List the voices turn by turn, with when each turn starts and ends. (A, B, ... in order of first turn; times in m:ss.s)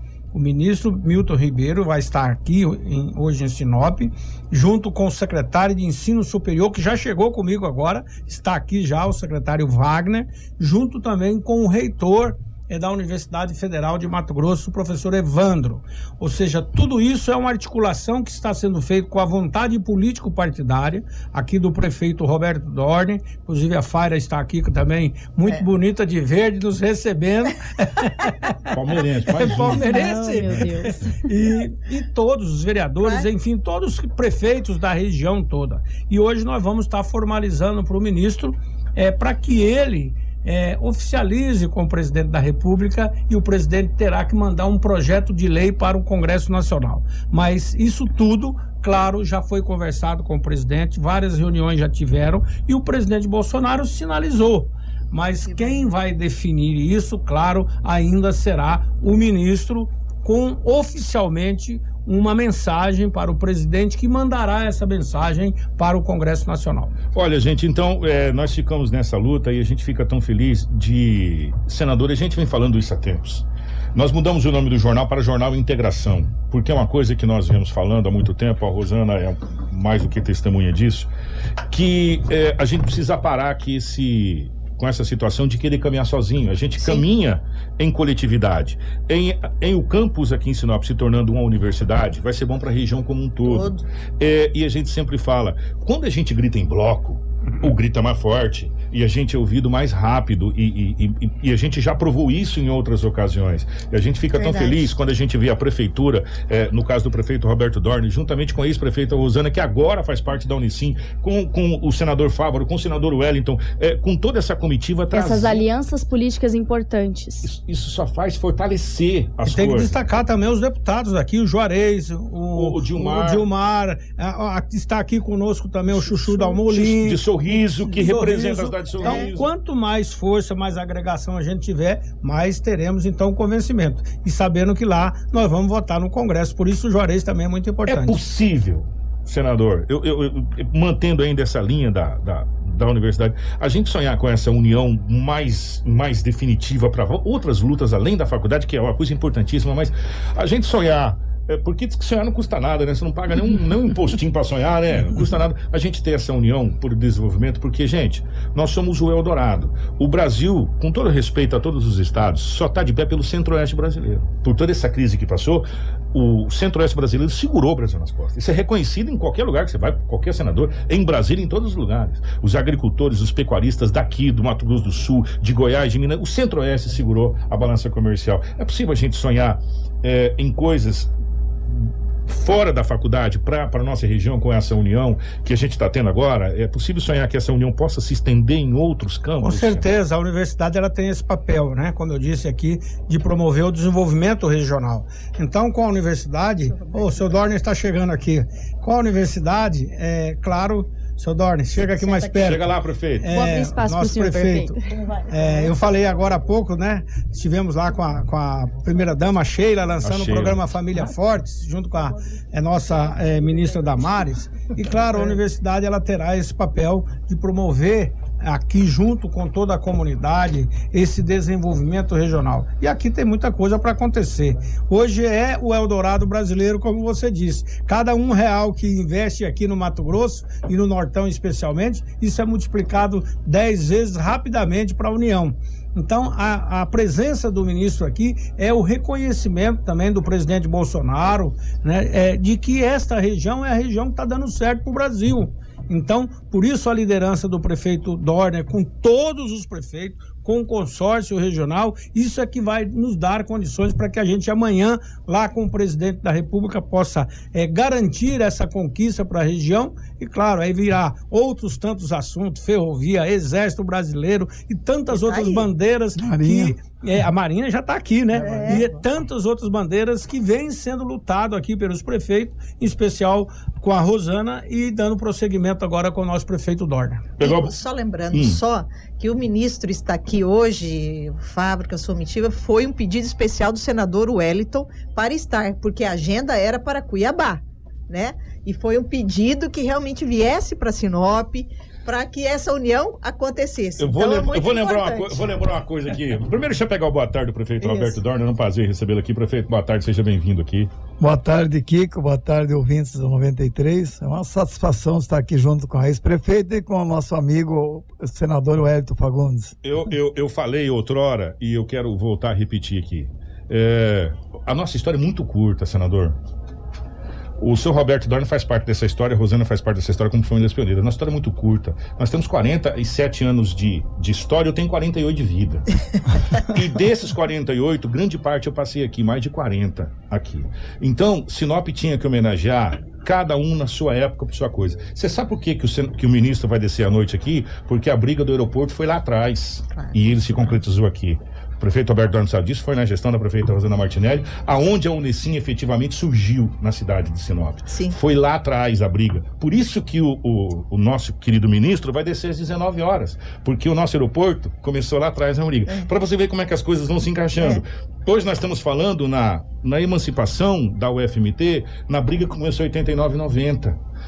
0:00.3-0:28.5 A
0:28.7-0:30.6 B
0:29.3-1:07.0 A
0:29.8-0:31.2 C
0:33.0-0:33.3 D
0:55.5-0:55.7 D
1:07.1-1:21.1 B
1:21.7-1:55.6 B
1:33.4-1:33.8 D
1:44.4-1:44.9 D
1:55.1-1:57.5 C
1:57.4-2:00.0 B
1:59.4-2:07.2 A
2:02.5-2:03.4 B
2:06.0-2:09.5 B
2:07.9-2:18.2 A
2:17.9-3:01.1 B
3:01.7-3:09.9 B
3:09.4-4:37.3 A
3:22.0-3:22.3 D
3:22.3-3:23.3 B
3:23.3-3:24.9 C
3:30.0-3:30.6 B
4:25.1-4:25.7 D
4:26.2-4:26.8 E
4:28.4-4:28.9 D
4:37.4-4:37.7 B
4:37.4-4:55.4 D
4:38.3-4:38.6 B
4:54.0-5:00.9 B
4:57.8-4:58.2 D
5:01.2-5:09.7 E
5:09.8-5:16.4 B
5:17.6-5:25.9 B
5:26.5-6:04.0 B
5:47.9-5:48.1 D